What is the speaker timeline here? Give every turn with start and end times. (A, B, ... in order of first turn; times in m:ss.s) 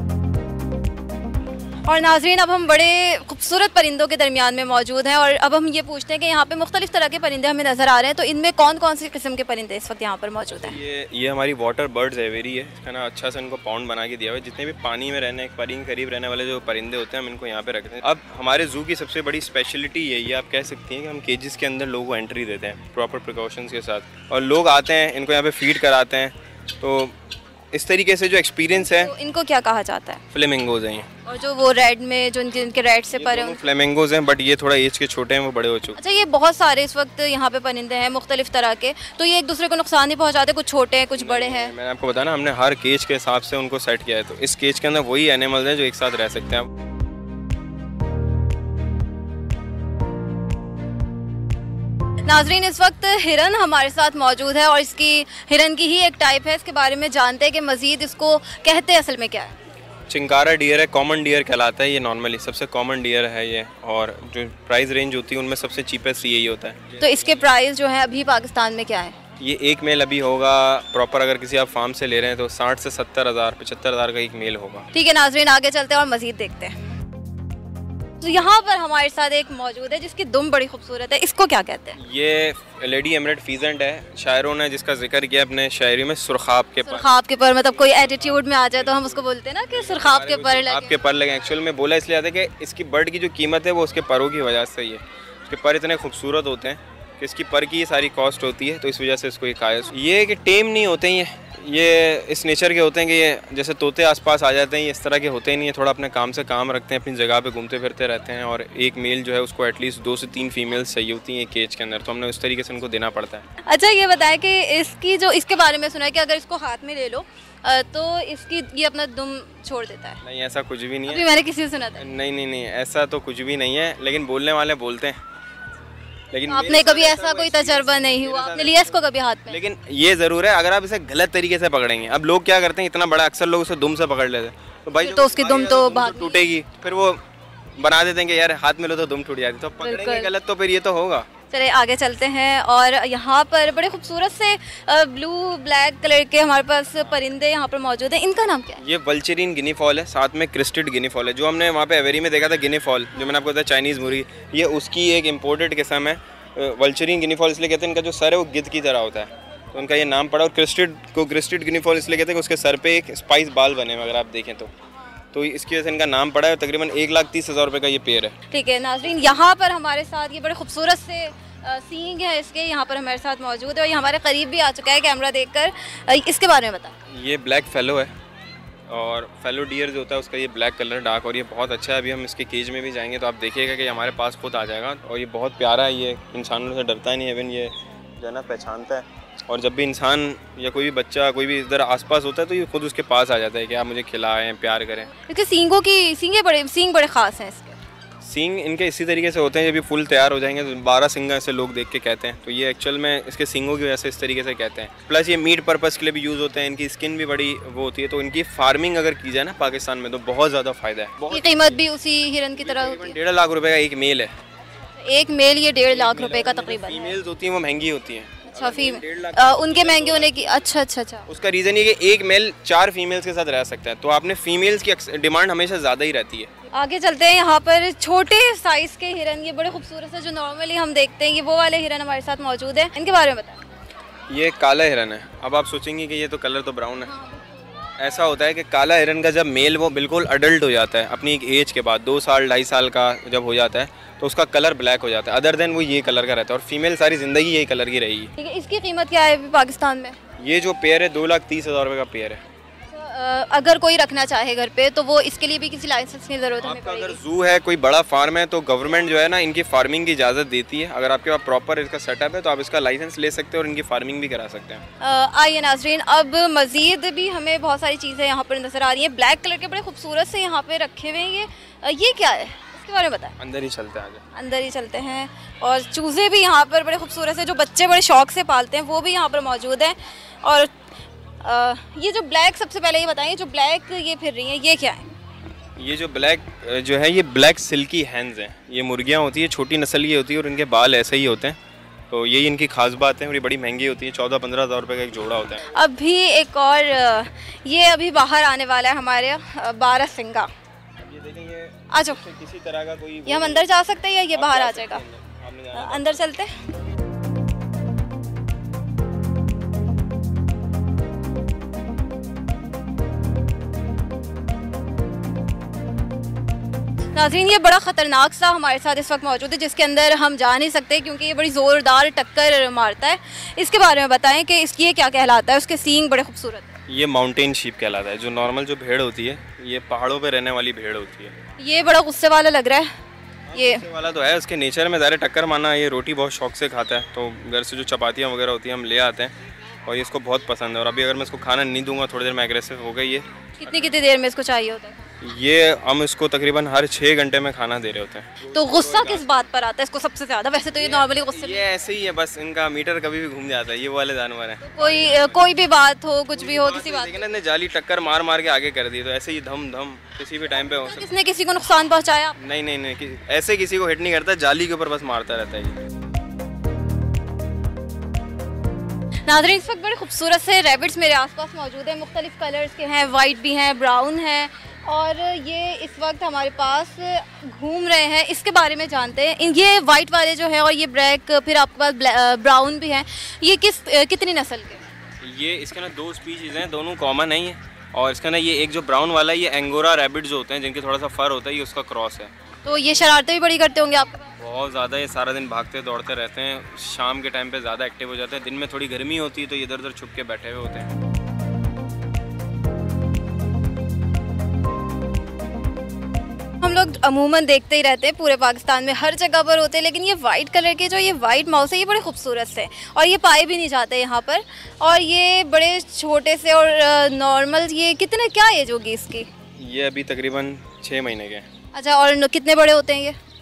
0:01.8-0:10.8 A
0:10.5-0:27.1 B
0:27.7-0:29.1 B
0:28.7-0:30.2 A
0:30.3-0:31.1 B
0:31.2-0:33.6 A
0:33.2-0:36.0 B
0:36.0-0:41.7 A
0:41.1-0:46.7 B
0:52.2-0:59.5 A
1:00.1-1:07.5 B
1:07.0-1:09.2 A
1:09.4-1:14.9 B
1:14.9-1:16.7 A
1:18.2-1:22.0 A
1:22.0-1:27.1 B
1:26.8-1:31.0 A
1:27.7-1:53.4 B
1:53.6-2:00.2 A
2:00.2-2:01.2 B
2:01.1-2:02.0 A
2:02.0-2:05.2 B
2:06.3-2:17.2 B
2:06.5-2:09.6 A
2:15.0-2:16.4 A
2:17.8-2:21.3 B
2:19.8-2:20.3 A
2:21.5-2:28.8 A
2:28.8-2:44.7 B
2:45.3-2:48.3 B
2:48.5-2:56.9 A
2:57.1-2:58.1 B
2:58.9-3:15.1 B
3:15.2-3:17.8 A
3:18.2-3:31.8 B
3:31.3-3:33.2 A
3:32.6-3:34.3 B
3:35.0-3:37.2 A
3:35.9-3:40.7 B
3:38.5-3:41.2 A
3:41.3-3:46.5 B
3:46.7-3:53.6 A
3:54.3-3:57.1 B
3:57.1-3:57.5 A
3:58.0-4:08.3 B
4:08.4-4:10.2 A
4:10.4-4:12.4 B
4:12.9-4:17.2 A
4:16.6-4:24.8 B
4:25.0-4:33.3 A
4:33.4-4:34.2 B
4:34.3-4:40.7 A
4:41.4-4:45.1 A
4:45.8-4:51.6 B
4:52.1-4:55.7 B
4:55.6-5:00.5 A
5:01.0-5:03.7 B
5:01.9-5:02.2 A
5:03.2-5:05.0 A
5:04.3-5:06.2 B
5:05.7-5:06.5 A
5:17.1-5:26.7 A
5:26.9-5:31.3 B
5:31.6-5:32.9 A
5:33.5-5:39.3 B
5:33.5-5:33.8 A
5:39.8-5:44.0 B
5:43.6-5:45.0 A
5:45.2-5:49.5 B
5:48.4-5:51.7 A
5:50.7-5:55.5 B
5:54.6-5:57.2 A
5:56.3-6:01.1 B
6:00.6-6:02.4 A
6:02.4-6:05.8 B
6:09.3-6:24.8 A
6:25.2-6:32.3 B
6:32.6-6:34.3 A
6:34.4-6:40.9 B
6:46.6-6:59.3 A
6:59.6-7:01.5 B
7:01.7-7:03.2 A